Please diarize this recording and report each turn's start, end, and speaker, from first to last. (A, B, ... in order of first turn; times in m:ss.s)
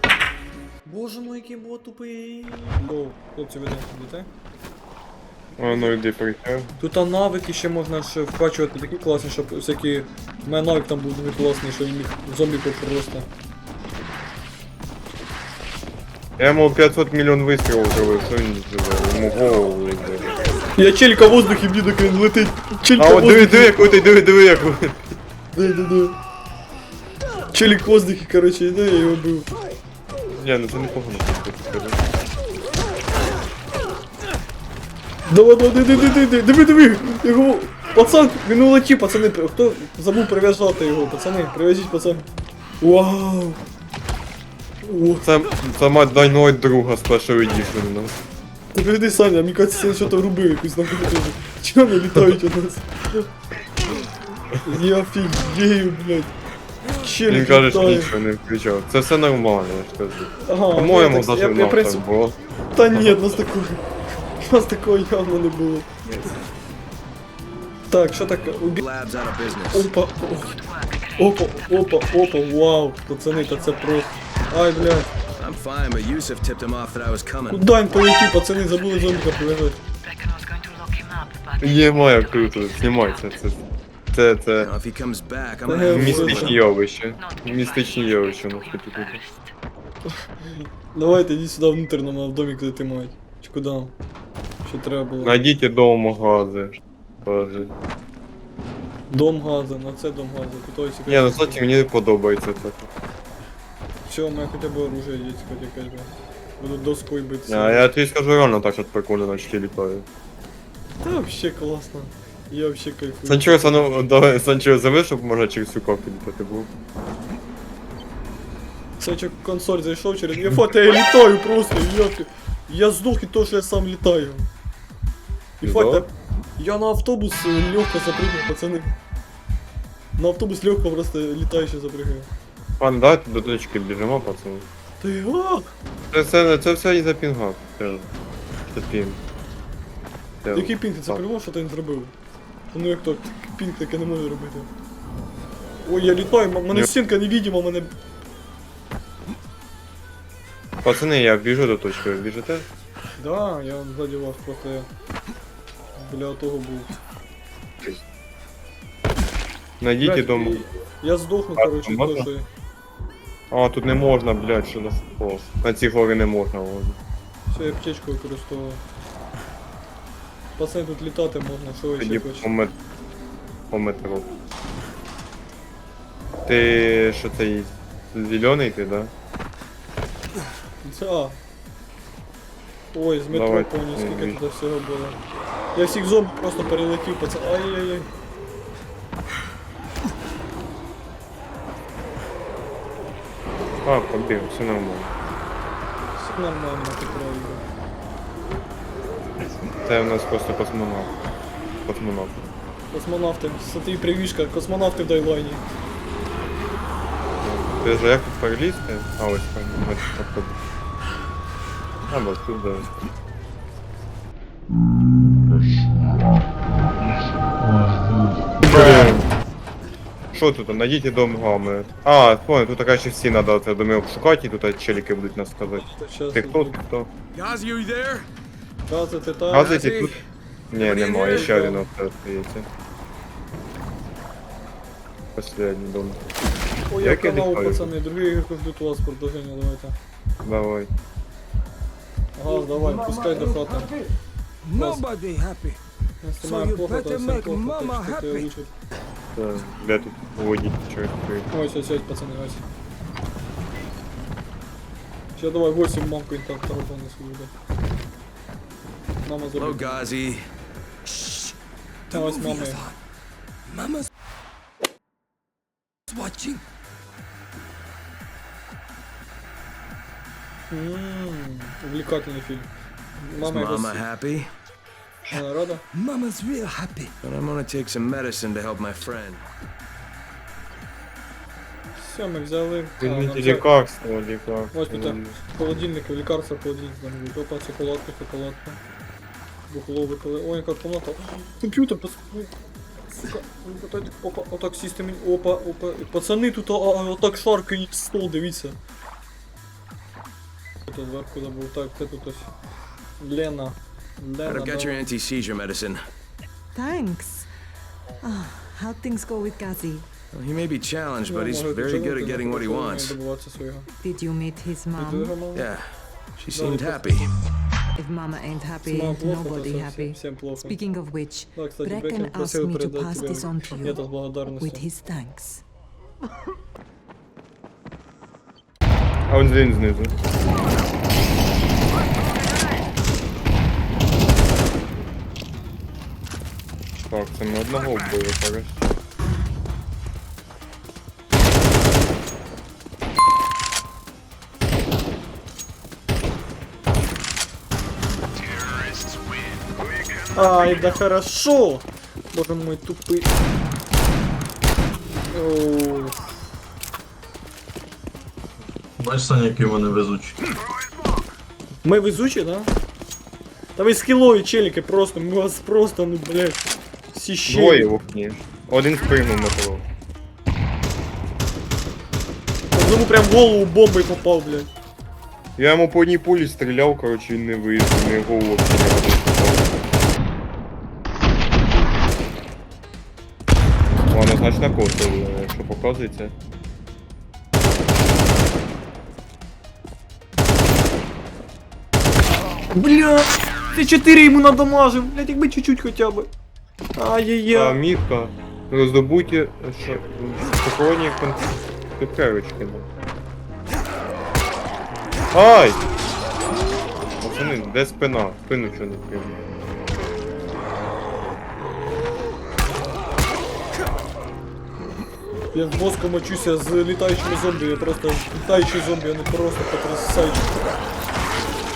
0:00.8-0:04.3 A
0:05.6-0:06.0 A
0:05.6-0:06.7 B
0:06.8-0:13.3 A
0:16.4-0:20.4 B
0:20.8-0:24.0 A
0:23.0-0:25.0 B
0:25.5-0:26.2 A
0:27.5-0:29.5 A
0:30.3-0:32.0 B
0:35.3-0:42.3 A
0:42.8-0:43.6 A
0:44.8-0:45.3 A
0:45.2-0:48.2 B
0:48.7-0:53.2 A
0:54.6-0:56.3 A
0:57.0-0:58.1 A
0:57.3-1:02.4 B
1:00.4-1:02.0 A
1:02.7-1:03.8 A
1:04.4-1:05.9 A
1:07.9-1:08.8 A
1:08.8-1:09.9 C
1:09.7-1:10.6 A
1:10.6-1:11.1 D
1:11.2-1:15.1 A
1:13.3-1:13.8 D
1:15.4-1:17.6 C
1:17.5-1:19.8 A
1:20.0-1:23.4 D
1:21.6-1:24.7 B
1:24.6-1:26.6 C
1:25.6-1:26.6 A
1:25.9-1:29.3 B
1:27.2-1:29.2 D
1:30.4-1:33.9 A
1:34.6-1:35.4 A
1:35.2-1:37.7 B
1:39.1-1:41.6 A
1:41.0-1:42.9 B
1:44.0-1:47.9 A
1:47.5-1:50.0 B
1:51.0-1:54.1 A
1:53.2-1:56.7 B
1:59.0-2:04.5 A
2:05.6-2:08.9 A
2:05.6-2:06.0 B
2:10.2-2:12.3 A
2:12.8-2:14.7 B
2:15.0-2:15.7 A
2:16.1-2:18.1 B
2:18.7-2:19.2 B
2:20.4-2:21.2 B
2:20.5-2:22.1 A
2:22.7-2:24.7 A
2:25.8-2:27.9 A
2:30.8-2:32.7 B
2:33.2-2:34.9 A
2:36.0-2:36.9 A
2:39.8-2:40.6 B
2:40.0-2:42.5 A
2:41.6-2:42.3 B
2:43.5-2:47.0 B
2:47.5-2:48.8 A
2:50.6-2:52.5 A
2:52.0-2:52.7 B
2:53.7-2:54.3 B
2:56.4-2:59.1 B
3:00.8-3:01.4 A
3:02.9-3:05.2 A
3:03.3-3:04.4 B
3:05.7-3:08.1 A
3:13.8-3:15.1 B
3:16.2-3:17.6 A
3:19.6-3:21.1 B
3:21.8-3:22.5 B
3:22.9-3:25.6 A
3:27.4-3:30.6 B
3:32.1-3:32.9 B
3:37.6-3:39.0 E
3:38.6-3:39.2 B
3:38.7-3:39.1 A
3:40.3-3:47.1 B
3:45.6-3:46.8 A
3:47.3-3:48.3 C
3:48.9-3:49.8 A
3:49.5-3:52.7 B
3:49.6-3:50.2 C
3:50.8-3:51.6 C
3:51.1-3:51.8 A
3:55.4-3:56.2 B
3:56.9-4:00.0 A
3:57.0-3:57.9 B
4:00.4-4:00.9 B
4:02.3-4:03.9 A
4:02.5-4:04.1 F
4:04.6-4:05.8 F
4:04.7-4:05.0 A
4:06.2-4:08.7 A
4:06.4-4:08.5 F
4:09.3-4:11.5 B
4:11.5-4:12.6 A
4:15.4-4:17.5 A
4:19.2-4:20.1 A
4:19.5-4:20.4 C
4:21.0-4:21.5 C
4:22.1-4:22.9 A
4:22.1-4:22.9 F
4:23.7-4:24.1 F
4:26.1-4:26.6 F
4:30.7-4:34.0 A
4:33.4-4:34.5 C
4:35.3-4:35.8 A
4:35.9-4:37.1 F
4:37.2-4:39.4 C
4:41.9-4:43.7 A
4:43.0-4:45.4 B
4:44.7-4:48.8 A
4:49.7-4:52.5 A
4:53.1-4:58.8 A
5:00.9-5:02.5 A
5:03.2-5:05.1 A
5:04.4-5:06.0 C
5:06.7-5:07.5 D
5:08.2-5:10.1 D
5:10.3-5:13.2 C
5:11.2-5:13.9 A
5:14.0-5:15.4 D
5:14.9-5:15.7 A
5:15.5-5:15.8 C
5:16.4-5:17.3 C
5:16.5-5:17.3 A
5:18.0-5:25.6 D
5:18.8-5:20.8 A
5:21.5-5:24.9 A
5:29.3-5:30.1 B
5:36.9-5:38.8 B
5:50.3-5:53.3 A
5:55.3-5:56.1 A
5:59.0-6:00.4 E
6:01.8-6:02.7 A
6:03.8-6:07.9 A
6:07.5-6:09.9 B
6:12.7-6:14.7 A
6:15.6-6:19.8 B
6:24.1-6:26.3 B
6:32.7-6:36.3 A
6:36.9-6:37.8 A
6:37.5-6:42.9 B
6:45.3-6:45.8 B
6:47.2-6:49.4 B
6:55.5-7:00.6 A